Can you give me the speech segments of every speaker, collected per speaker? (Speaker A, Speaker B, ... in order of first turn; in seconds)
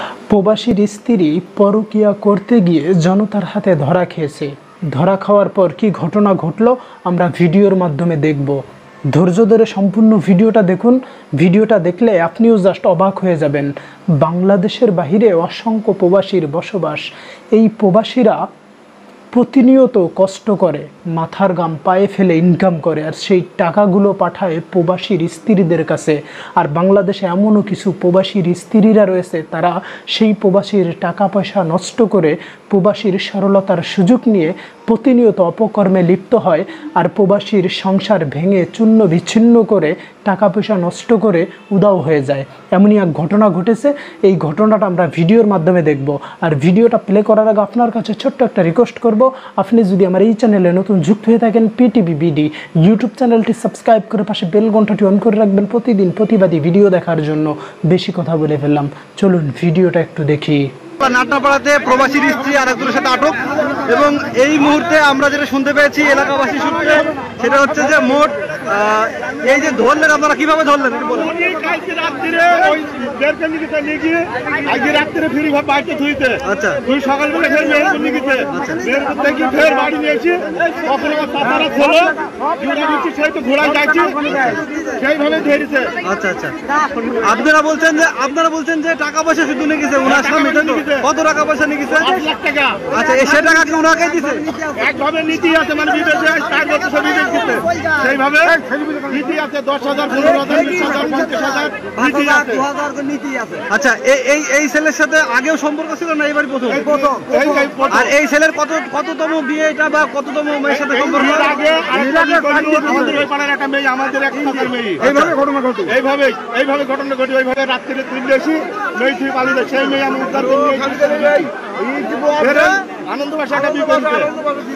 Speaker A: 0.3-8.6, 9.1-18.4, 19.3-60.7
Speaker B: 61.0-71.3, 76.4-76.8, 78.4-79.1, 84.2-84.7, 86.0-92.2, 92.9-94.7, 102.0-113.2, 115.0-115.8
Speaker C: 71.2-84.3, 84.9-86.0, 90.1-91.0, 92.0-92.9, 94.7-102.7, 106.9-108.1, 111.1-115.2, 115.8-124.3